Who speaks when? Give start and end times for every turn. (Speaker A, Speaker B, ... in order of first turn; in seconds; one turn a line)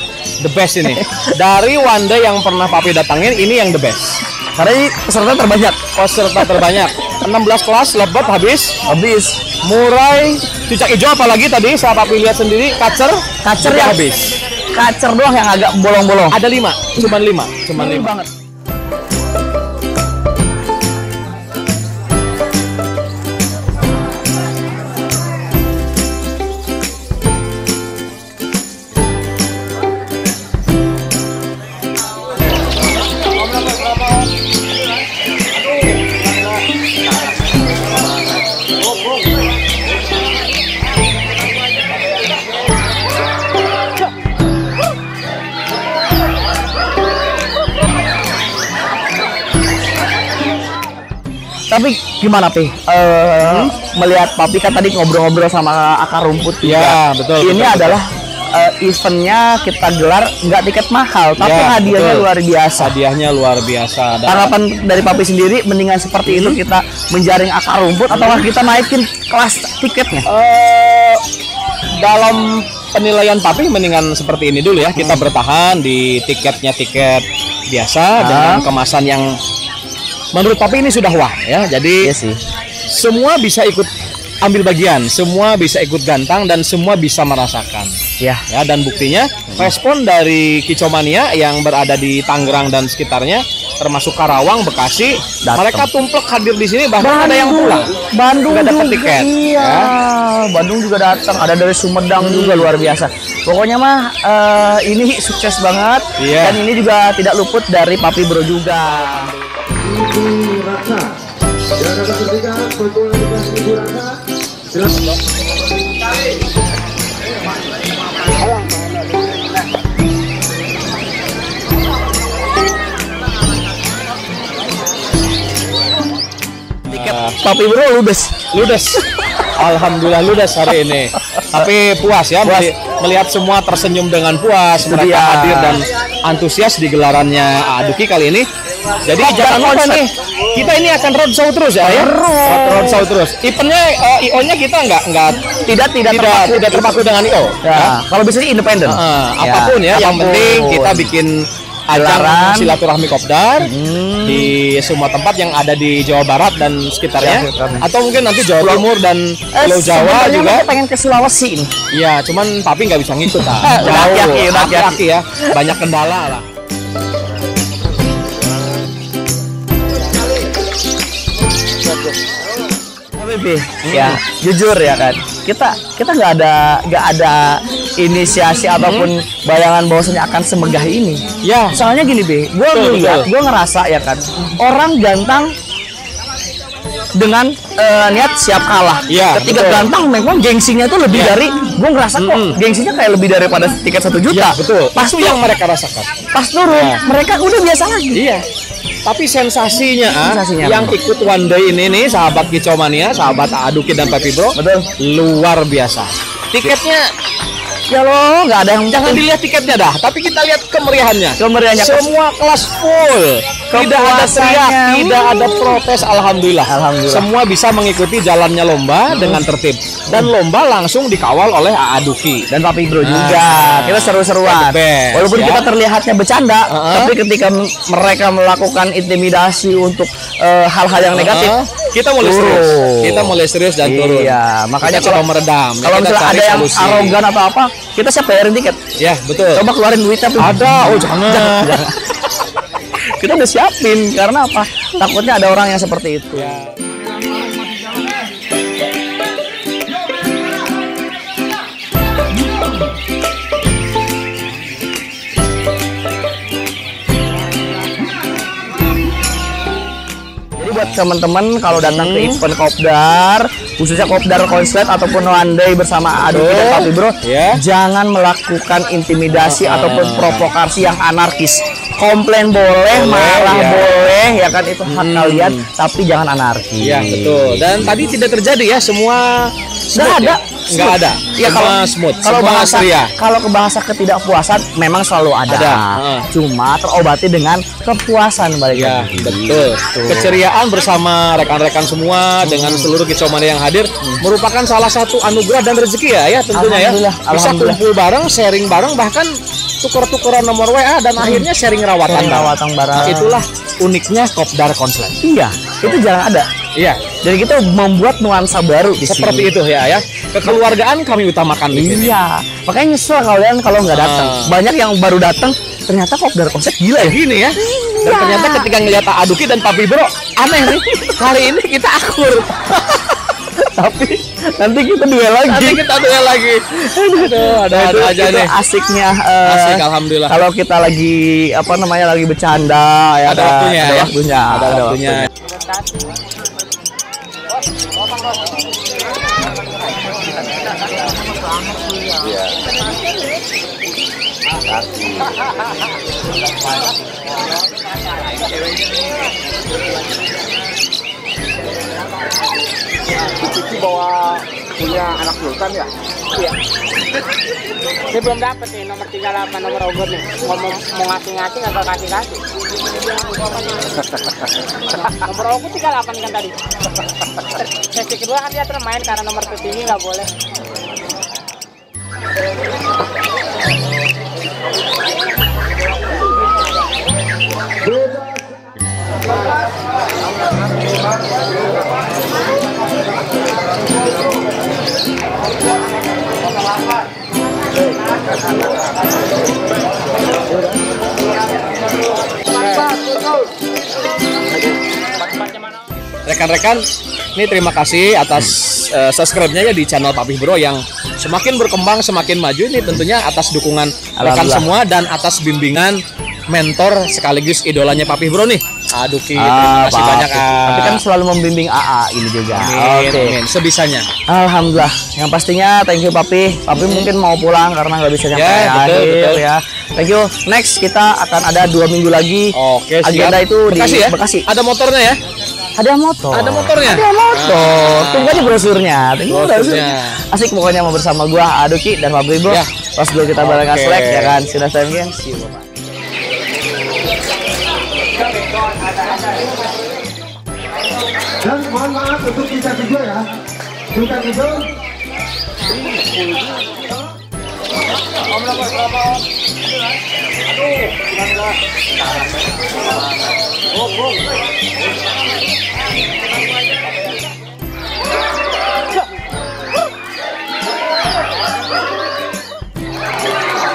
Speaker A: 0.4-4.2
Speaker B: 0.8-1.3
Speaker B: 4.5-5.8
Speaker A: 5.9-8.8
Speaker B: 6.3-6.7
Speaker B: 8.9-9.4
Speaker A: 9.6-14.3
Speaker B: 13.4-14.0
Speaker B: 14.7-16.4
Speaker A: 16.3-18.1
Speaker B: 17.8-18.3
Speaker B: 51.7-62.9
Speaker A: 53.4-53.8
Speaker A: 56.6-58.0
Speaker A: 61.4-64.5
Speaker B: 64.2-70.3
Speaker A: 66.2-66.6
Speaker A: 68.1-68.5
Speaker A: 70.2-71.2
Speaker A: 72.0-79.3
Speaker B: 75.0-75.3
Speaker B: 78.2-78.7
Speaker A: 80.3-82.1
Speaker B: 82.0-82.4
Speaker A: 82.9-83.9
Speaker A: 84.4-87.9
Speaker B: 88.2-88.5
Speaker A: 88.5-97.9
Speaker B: 95.4-95.9
Speaker B: 97.0-109.3
Speaker A: 98.5-99.9
Speaker A: 102.2-102.7
Speaker A: 106.2-106.6
Speaker C: 109.9-111.1
Speaker C: 111.8-114.2
Speaker B: 126.9-128.5
Speaker A: 126.9-127.4
Speaker A: 128.5-129.0
Speaker A: 129.6-138.5
Speaker B: 131.3-131.7
Speaker B: 132.4-132.7
Speaker B: 134.8-135.8
Speaker A: 139.1-145.5
Speaker B: 139.2-140.1
Speaker B: 141.8-143.0
Speaker B: 145.7-147.0
Speaker A: 146.1-148.0
Speaker B: 147.6-151.1
Speaker A: 148.8-153.7
Speaker B: 151.9-152.7
Speaker B: 153.6-154.5
Speaker A: 154.2-160.7
Speaker B: 157.2-157.9
Speaker B: 158.6-158.8
Speaker B: 159.5-161.7
Speaker A: 161.9-166.5
Speaker B: 163.5-165.6
Speaker B: 173.2-185.5
Speaker A: 173.8-174.2
Speaker A: 178.7-179.1
Speaker A: 181.4-181.8
Speaker A: 182.7-183.3
Speaker B: 187.1-195.4
Speaker A: 189.1-189.9
Speaker A: 191.1-191.4
Speaker A: 192.2-192.6
Speaker A: 194.3-197.0
Speaker B: 196.3-198.2
Speaker A: 198.1-198.4
Speaker A: 199.0-207.0
Speaker B: 200.2-200.9
Speaker B: 204.5-204.9
Speaker B: 207.9-209.2
Speaker A: 208.9-222.5
Speaker B: 211.4-212.1
Speaker B: 213.7-215.8
Speaker B: 216.7-217.3
Speaker B: 219.1-219.4
Speaker B: 222.5-231.5
Speaker A: 223.0-225.7
Speaker A: 226.7-227.1
Speaker A: 231.1-237.2
Speaker B: 232.2-235.2
Speaker B: 235.8-238.8
Speaker A: 239.0-239.7
Speaker B: 239.5-242.0
Speaker A: 240.4-241.9
Speaker B: 243.2-246.6
Speaker A: 246.3-246.8
Speaker C: 250.0-250.7
Speaker B: 260.6-278.0
Speaker A: 260.7-261.0
Speaker A: 261.7-262.4
Speaker A: 266.3-267.6
Speaker A: 269.3-270.5
Speaker A: 272.9-274.0
Speaker A: 274.9-275.6
Speaker A: 276.8-283.1
Speaker B: 279.9-290.4
Speaker A: 285.5-286.2
Speaker A: 288.7-305.2
Speaker B: 292.4-292.9
Speaker B: 296.5-297.8
Speaker B: 301.2-301.5
Speaker B: 302.1-303.4
Speaker B: 305.2-306.5
Speaker A: 306.8-307.0
Speaker B: 307.2-309.5
Speaker A: 309.0-312.1
Speaker B: 311.7-318.7
Speaker A: 313.9-314.6
Speaker A: 317.0-323.3
Speaker B: 323.7-325.8
Speaker A: 325.4-328.5
Speaker B: 327.1-335.3
Speaker A: 329.4-330.4
Speaker A: 333.2-335.3
Speaker D: 335.7-336.1
Speaker D: 353.4-354.4
Speaker C: 354.9-355.8
Speaker D: 355.0-355.8
Speaker D: 358.0-362.4
Speaker D: 365.0-366.6
Speaker D: 367.7-370.3
Speaker C: 377.9-378.4
Speaker A: 392.6-392.9
Speaker A: 396.2-396.8
Speaker A: 397.4-411.0
Speaker B: 404.2-404.7
Speaker B: 409.4-413.4
Speaker A: 412.5-414.1
Speaker B: 414.3-424.5
Speaker A: 416.8-417.1
Speaker A: 418.3-419.4
Speaker A: 422.5-425.2
Speaker B: 425.8-435.6
Speaker A: 426.3-428.6
Speaker A: 429.3-430.2
Speaker A: 433.4-434.4
Speaker C: 441.4-443.3
Speaker C: 443.9-444.7